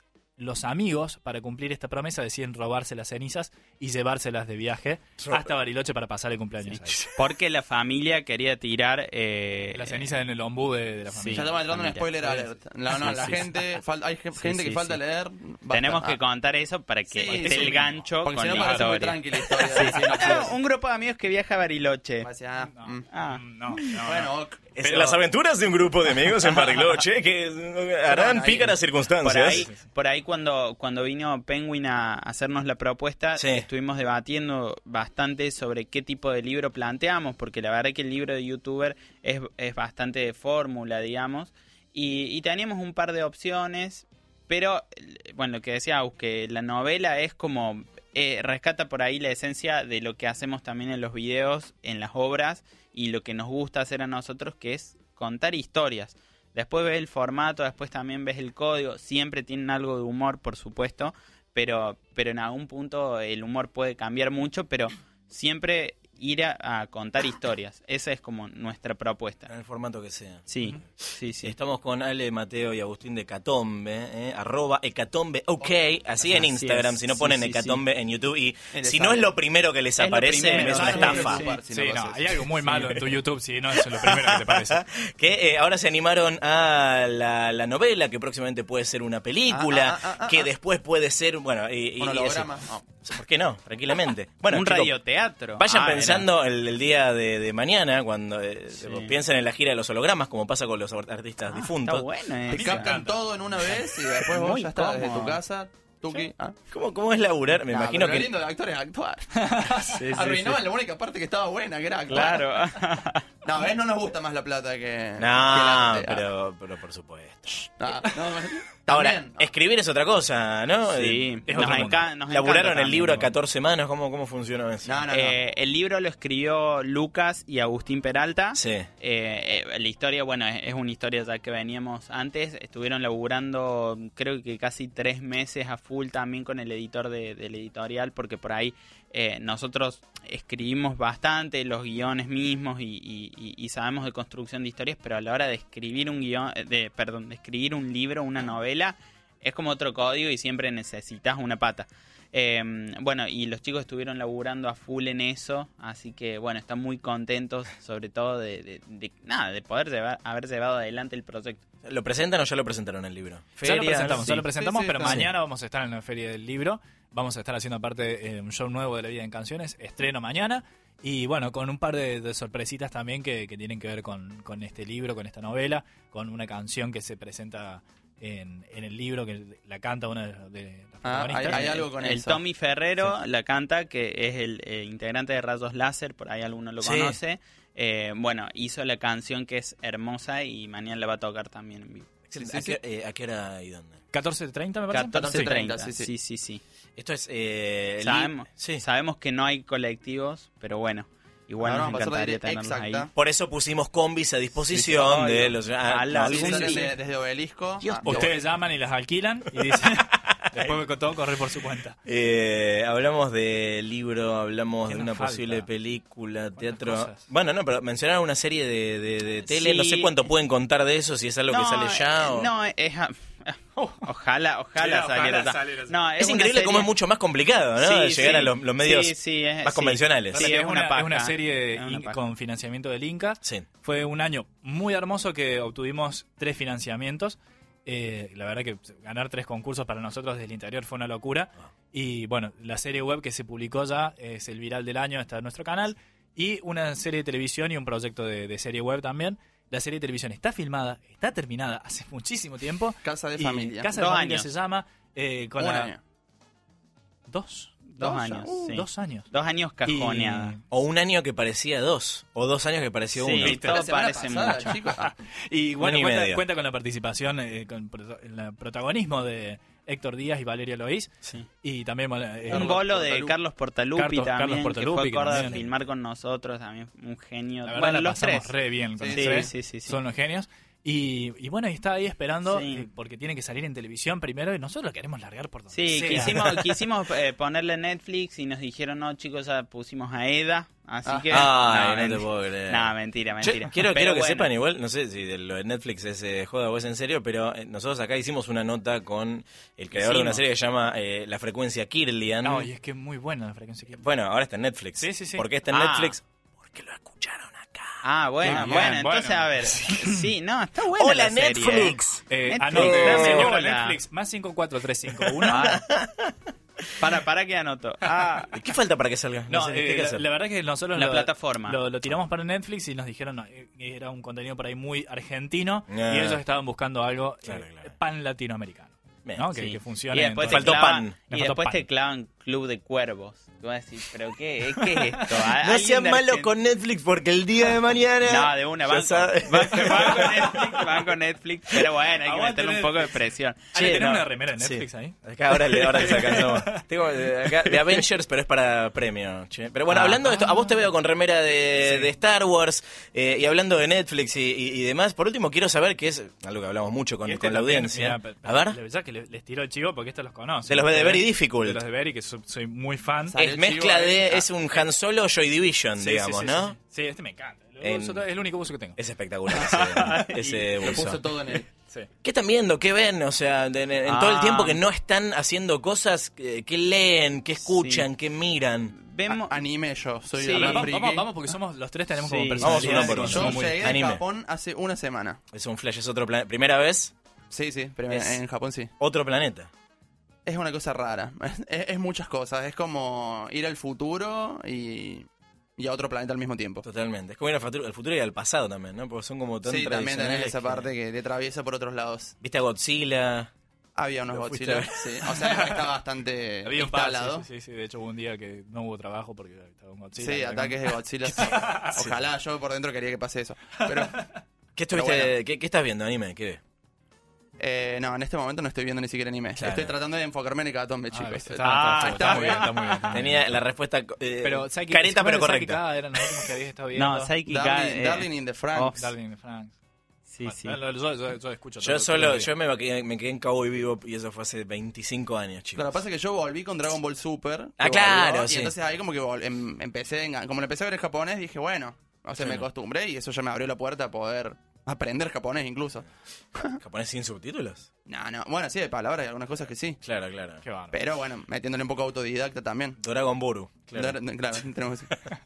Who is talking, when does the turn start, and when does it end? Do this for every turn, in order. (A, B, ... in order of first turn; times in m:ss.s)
0:00.4-0:07.0 A
0:05.2-0:05.5 B
0:06.6-0:10.1 C
0:09.7-0:13.5 A
0:11.1-0:12.0 C
0:11.3-0:16.2 D
0:13.0-0:13.4 C
0:14.4-0:15.0 C
0:15.7-0:22.3 C
0:17.1-0:20.6 D
0:17.3-0:18.9 A
0:19.7-0:20.3 A
0:22.2-0:23.1 D
0:22.6-0:24.3 A
0:23.1-0:23.8 C
0:23.8-0:24.6 D
0:24.8-0:29.7 B
0:24.8-0:25.2 A
0:28.1-0:28.8 D
0:29.2-1:09.5 C
0:33.4-0:33.7 B
1:09.5-1:10.9 B
1:10.5-1:11.6 C
1:11.4-1:21.4 B
1:16.3-1:17.8 C
1:18.7-1:19.3 D
1:20.0-1:21.6 C
1:20.5-1:23.0 D
1:20.5-1:24.8 A
1:23.9-1:34.9 B
1:29.5-1:30.5 D
1:32.0-1:32.8 D
1:34.5-1:36.3 C
1:35.6-1:42.1 B
1:38.8-1:39.1 C
1:41.6-1:42.9 C
1:42.5-1:46.6 D
1:42.5-1:43.8 A
1:44.2-1:45.4 C
1:46.7-1:48.3 B
1:47.7-1:52.5 D
1:49.4-1:50.6 A
1:49.9-1:50.3 C
1:52.1-1:53.3 C
1:53.4-1:56.2 D
1:55.2-1:57.6 B
1:57.6-1:59.5 D
1:58.9-2:05.0 B
2:00.9-2:03.3 C
2:01.5-2:02.0 A
2:04.8-2:05.4 D
2:05.1-2:41.6 C
2:08.6-2:08.9 B
2:41.8-2:44.5 B
2:43.6-3:01.8 A
2:44.6-2:45.2 D
2:45.0-2:45.3 B
3:01.0-3:02.4 D
3:01.5-3:12.1 C
3:06.8-3:07.2 B
3:12.3-3:14.0 B
3:12.4-3:12.8 D
3:14.1-3:15.5 A
3:14.9-3:16.6 C
3:15.1-3:16.1 D
3:17.0-3:18.8 B
3:18.0-3:23.1 C
3:21.6-3:23.1 D
3:23.2-3:26.9 B
3:24.7-3:26.9 C
3:26.3-3:28.3 D
3:27.8-3:28.3 B
3:28.0-3:32.0 A
3:30.1-3:30.8 B
3:32.0-3:42.5 B
3:34.9-3:35.7 A
3:36.6-3:37.2 A
3:39.5-3:40.2 C
3:41.5-3:46.9 C
3:43.8-3:44.1 A
3:44.8-3:45.9 A
3:46.2-3:50.5 B
3:47.8-3:52.2 C
3:50.3-4:15.9 A
4:13.0-4:13.9 D
4:14.0-4:14.5 C
4:15.6-4:16.0 D
4:17.3-4:17.8 A
4:17.9-4:20.6 C
4:18.0-4:18.8 D
4:18.7-4:19.3 A
4:19.8-4:20.6 A
4:20.7-4:23.6 B
4:23.2-4:24.8 C
4:23.4-4:23.8 A
4:23.5-4:25.1 D
4:24.5-4:32.8 A
4:25.8-4:26.4 B
4:32.5-4:33.4 D
4:32.5-4:38.5 C
4:34.0-4:35.7 A
4:35.3-4:35.6 B
4:37.7-4:46.6 A
4:39.0-4:39.5 D
4:39.1-4:40.0 C
4:42.5-4:42.9 C
4:45.7-4:54.5 C
4:51.0-4:51.5 D
4:51.3-5:02.7 B
4:59.9-5:00.4 C
5:02.4-5:04.0 A
5:04.0-5:08.8 B
5:05.0-5:05.5 A
5:05.7-5:06.2 C
5:08.0-5:14.0 C
5:08.4-5:10.3 A
5:10.8-5:13.5 B
5:12.3-5:15.8 A
5:15.4-5:16.3 B
5:15.4-5:15.9 C
5:17.0-5:18.5 C
5:18.5-5:20.2 B
5:19.5-5:31.9 A
5:21.0-5:21.8 C
5:25.9-5:26.4 B
5:27.4-5:27.9 B
5:29.5-5:36.5 C
5:30.4-5:31.2 B
5:34.8-5:35.2 A
5:35.6-5:40.8 B
5:38.2-5:44.1 C
5:39.7-5:40.5 A
5:42.2-5:43.2 A
5:43.7-5:46.8 A
5:43.7-5:58.8 B
5:47.4-5:48.0 A
5:49.9-5:50.8 A
5:51.8-5:52.1 A
5:57.2-6:03.4 A
6:00.7-6:01.8 B
6:03.3-6:04.5 D
6:03.4-6:06.8 B
6:06.0-6:09.0 A
6:07.8-6:08.2 B
6:09.0-6:11.2 B
6:09.5-6:10.8 C
6:10.8-6:11.7 D
6:12.2-6:18.9 B
6:14.1-6:14.8 C
6:17.7-6:18.1 C
6:19.0-6:19.6 C
6:19.3-6:21.3 D
6:20.4-6:20.9 C
6:20.5-6:23.9 A
6:22.2-6:23.2 C
6:22.6-6:24.2 B
6:22.8-6:25.4 D
6:25.5-6:27.1 B
6:27.5-6:28.9 D
6:28.1-6:28.4 B
6:29.0-6:29.7 B
6:30.5-6:36.8 D
6:36.8-6:40.9 B
6:39.6-6:42.3 D
6:42.4-6:43.5 B
6:44.0-6:47.5 D
6:44.3-6:45.3 B
6:45.3-6:45.8 A
6:46.6-6:52.0 A
6:50.2-6:54.3 D
6:53.8-6:54.3 A
6:54.8-6:56.6 B
6:54.9-6:55.3 D
6:57.6-7:02.7 D
6:59.6-6:59.9 B
7:01.1-7:03.5 A
7:01.6-7:03.0 C
7:03.1-7:05.8 B
7:04.4-7:07.3 A
7:07.0-7:09.0 C
7:07.5-7:09.0 D
7:09.0-7:09.8 A
7:10.3-7:10.8 C
7:10.4-7:12.5 A
7:11.8-7:15.9 B
7:15.8-7:26.8 D
7:17.8-7:18.7 B
7:22.4-7:22.7 B
7:26.8-7:27.9 B
7:28.1-7:30.0 D
7:30.0-7:30.6 B
7:30.6-7:31.0 A
7:30.9-7:33.0 D
7:33.0-7:34.2 B
7:34.0-7:35.1 D